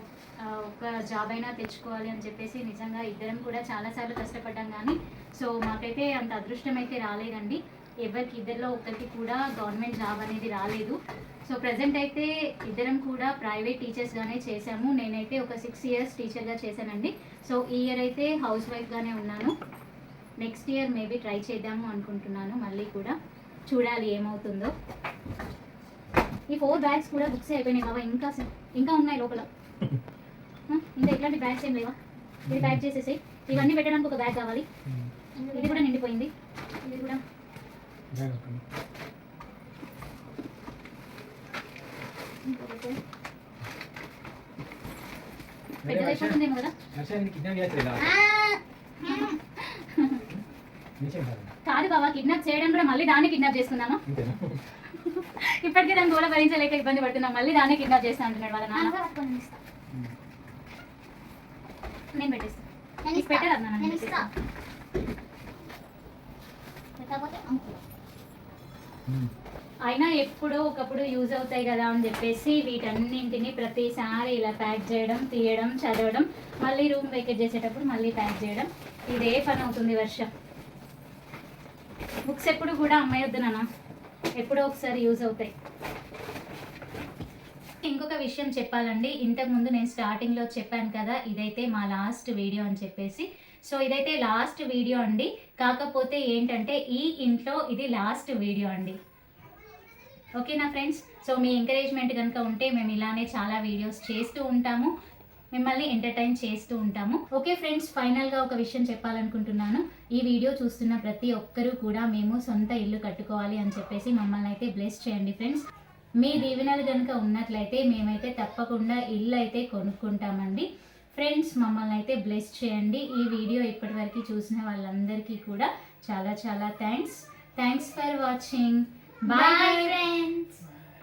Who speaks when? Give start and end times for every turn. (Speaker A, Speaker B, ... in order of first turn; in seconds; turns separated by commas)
Speaker A: 0.4-10.9, Speaker A: 11.5-19.5, Speaker A: 20.4-23.1, Speaker A: 23.7-24.7, Speaker A: 26.5-29.5, Speaker A: 30.7-31.9, Speaker B: 32.5-32.8, Speaker A: 32.5-34.6, Speaker B: 34.9-35.1, Speaker C: 35.4-35.8, Speaker A: 35.5-36.3, Speaker A: 36.8-37.2, Speaker B: 38.1-38.6, Speaker C: 42.5-43.0, Speaker B: 45.8-46.4, Speaker A: 45.8-46.7, Speaker B: 46.9-48.2, Speaker C: 48.0-49.4, Speaker A: 49.1-50.2, Speaker B: 51.0-51.5, Speaker A: 51.6-54.0, Speaker B: 54.1-54.6, Speaker A: 54.9-58.9, Speaker C: 58.7-59.6, Speaker B: 59.9-60.1, Speaker A: 62.1-64.2, Speaker C: 63.0-64.3, Speaker C: 67.0-67.8, Speaker A: 69.8-80.3, Speaker A: 82.3-83.6, Speaker A: 84.4-85.5, Speaker A: 87.8-99.0, Speaker A: 100.4-104.9, Speaker A: 105.5-115.6, Speaker A: 116.2-130.0, Speaker C: 129.3-130.6